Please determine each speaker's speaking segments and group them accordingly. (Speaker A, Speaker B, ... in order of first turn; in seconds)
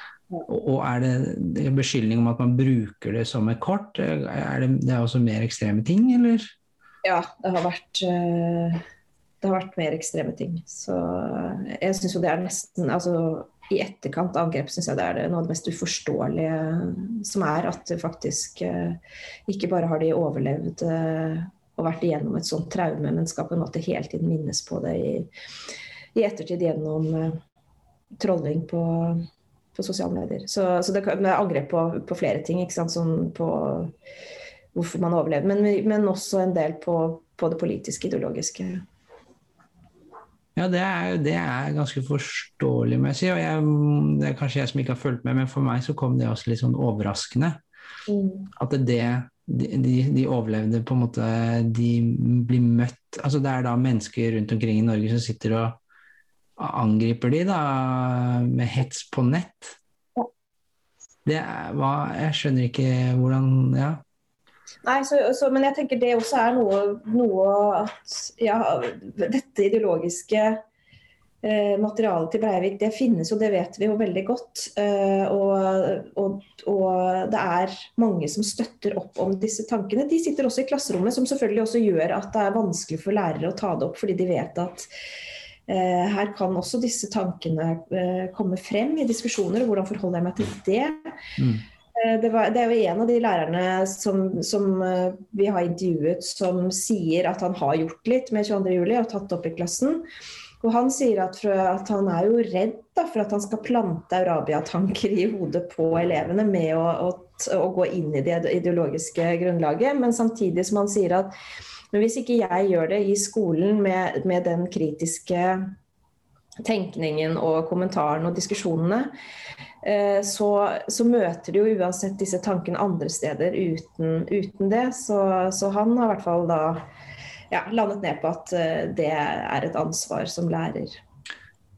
Speaker A: 0.5-6.5, 40.6-47.6, 48.6-55.8, 56.6-59.8, 61.3-64.0, 91.4-91.6
Speaker B: 7.0-8.8, 9.4-25.3, 26.1-27.4, 28.2-33.9, 34.7-38.8, 48.1-48.5, 64.8-70.6, 71.4-84.9, 85.7-91.2, 92.0-100.0, 100.6-111.3, 111.9-115.7, 116.6-119.1, 119.8-126.8, 127.5-131.0